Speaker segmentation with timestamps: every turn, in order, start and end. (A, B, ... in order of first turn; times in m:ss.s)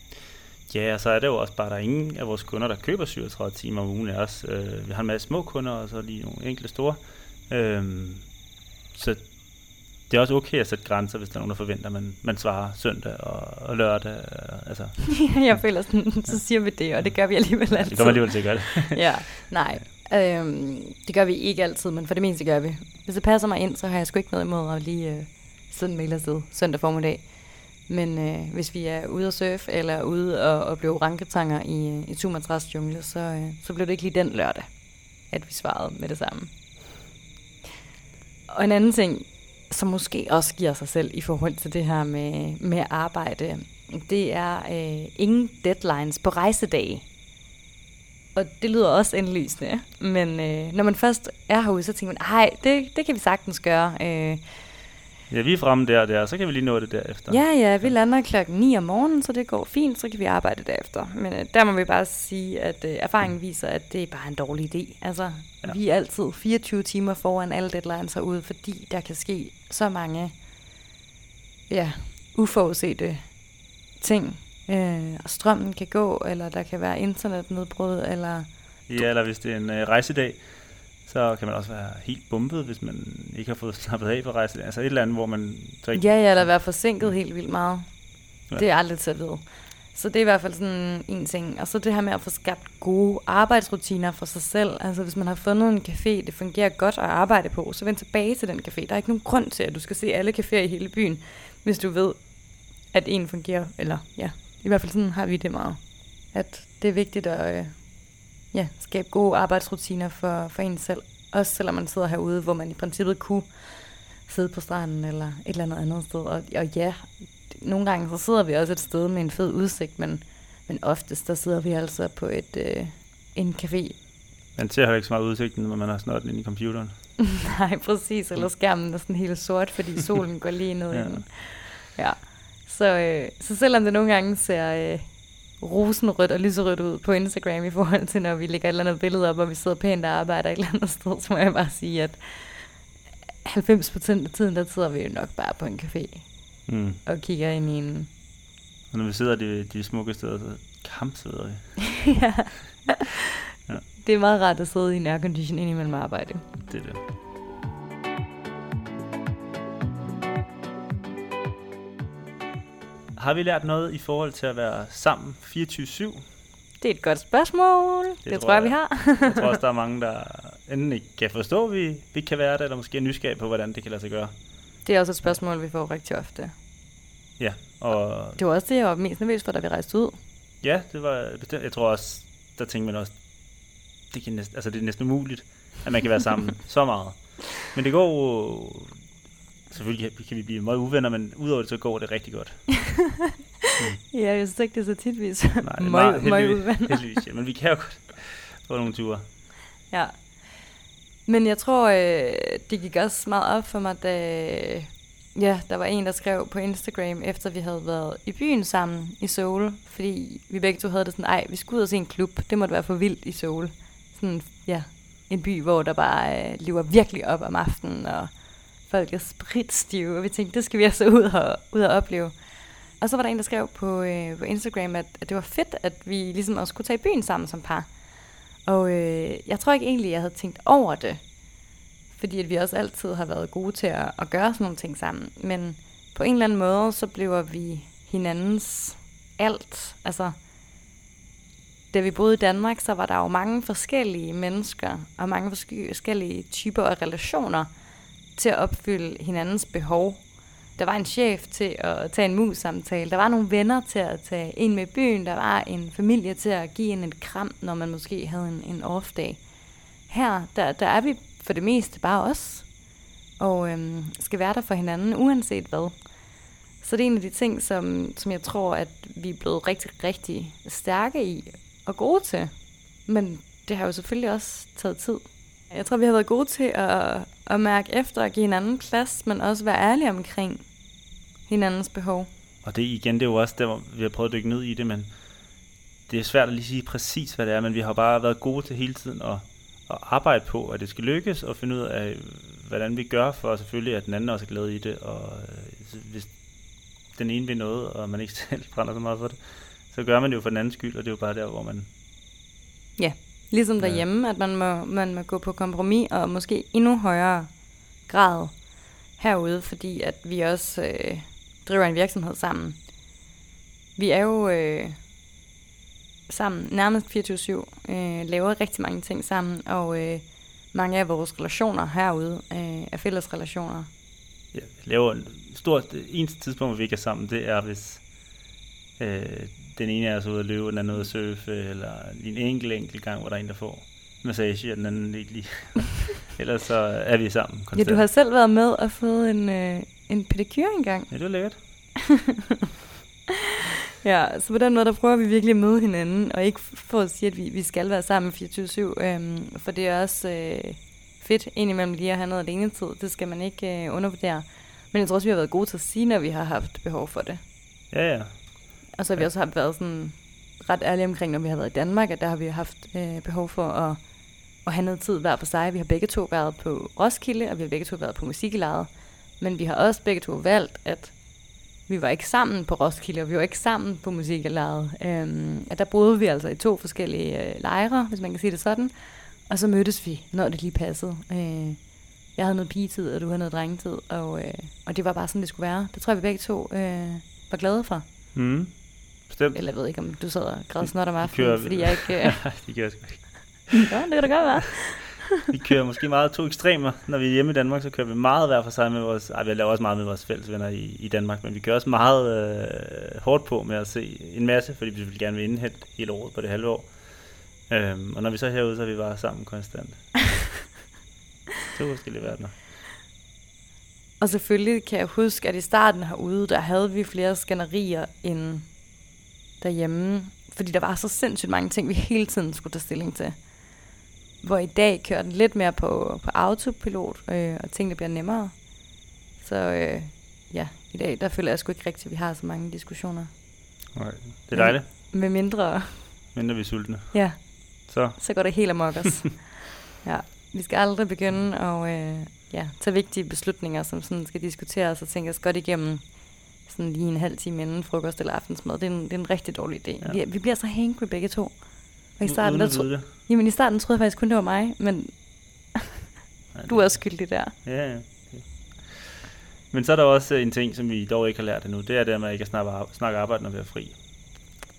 0:00.7-0:08.2 A
0:08.9-0:09.2 A
0:10.1-0:15.6 A
0:15.0-0:27.3 B
0:17.7-0:19.4 A
0:27.8-0:34.7 B
0:35.3-0:36.5 B
0:38.5-0:47.0 B
0:48.3-0:54.4 B
0:55.3-0:57.9 A
0:57.3-1:10.3 B
1:11.7-1:13.3 B
1:14.0-1:19.0 B
1:18.9-1:20.5 A
1:21.0-1:26.5 A
1:25.9-1:27.9 B
1:28.5-1:29.4 B
1:29.9-1:42.2 B
1:42.9-1:45.8 B
1:46.3-1:47.8 B
1:48.5-2:04.0 B
2:04.6-2:06.9 A
2:07.2-2:15.0 B
2:10.9-2:11.2 A
2:15.6-2:22.7 B
2:23.4-2:26.2 B
2:26.7-2:27.0 A
2:27.0-2:28.1 B
2:28.9-2:31.8 A
2:32.0-2:33.2 B
2:33.9-2:36.4 B
2:36.7-2:37.0 A
2:43.1-2:46.2 A
2:46.8-2:49.6 B
2:48.2-2:54.3 A
2:54.8-2:56.5 B
2:57.4-2:58.4 A
2:58.4-3:00.2 B
3:00.6-3:03.2 A
3:04.1-3:09.0 A
3:09.7-3:12.8 A
3:14.0-3:17.0 B
3:15.6-3:19.2 A
3:19.9-3:20.1 B
3:21.2-3:38.3 B
3:38.9-3:42.4 B
3:43.0-3:47.9 B
3:48.6-3:51.2 B
3:52.1-4:00.3 B
4:01.9-4:07.7 B
4:08.3-4:10.2 B
4:10.8-4:19.4 B
4:20.1-4:22.7 B
4:23.4-4:26.0 B
4:26.8-4:32.5 B
4:33.0-4:40.6 B
4:41.5-4:42.3 B
4:42.6-4:45.1 A
4:46.1-4:56.4 A
4:57.1-5:01.9 A
5:03.0-5:07.5 B
5:03.8-5:04.0 A
5:08.1-5:08.6 B
5:09.2-5:12.8 B
5:14.0-5:15.0 B
5:16.3-5:23.9 B
5:24.5-5:28.0 A
5:29.0-5:38.0 A
5:37.7-5:41.1 B
5:41.1-5:41.6 A
5:44.0-5:57.4 B
5:57.9-5:58.5 A
5:59.0-6:04.0 B
6:04.6-6:08.9 B
6:09.4-6:11.2 B
6:11.9-6:21.8 B
6:22.4-6:28.0 B
6:28.3-6:29.6 A
6:29.5-6:32.4 B
6:31.2-6:33.9 A
6:33.8-6:35.2 B
6:35.4-6:46.9 A
6:47.7-6:50.2 A
6:51.7-6:52.6 A
6:54.2-6:58.7 B
6:59.6-7:03.4 B
7:04.4-7:08.6 B
7:09.4-7:13.3 B
7:13.9-7:14.9 A
7:14.5-7:16.2 B
7:16.3-7:17.2 A
7:17.1-7:31.6 B
7:17.9-7:18.7 A
7:32.2-7:35.2 B
7:32.2-7:33.1 A
7:36.5-7:44.0 A
7:36.6-7:37.5 B